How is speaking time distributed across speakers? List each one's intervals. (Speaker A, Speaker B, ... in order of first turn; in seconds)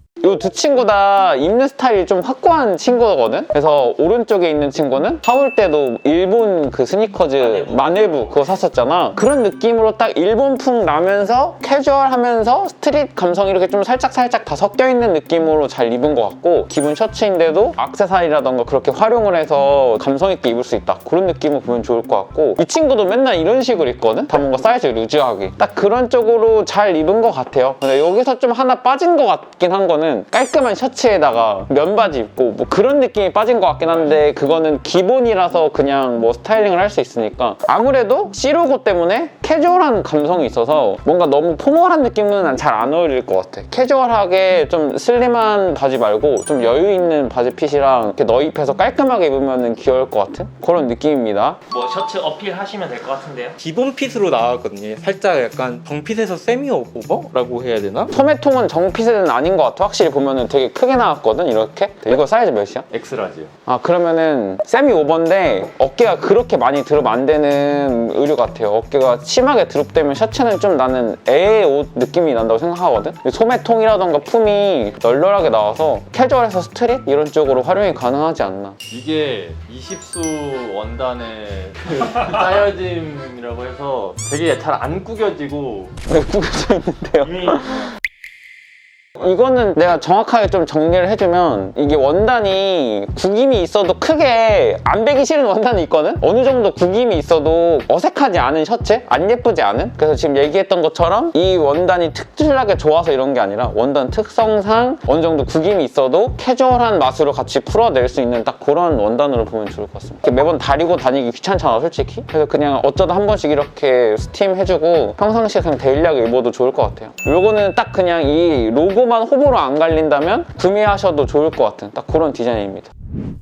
Speaker A: 0.2-51.6, 58.1-62.9, 63.6-78.8, 86.1-87.8, 89.2-122.9
Speaker B: 7.4-8.5, 51.7-53.6
Speaker C: 53.6-58.1
Speaker D: 62.9-63.4, 78.9-85.9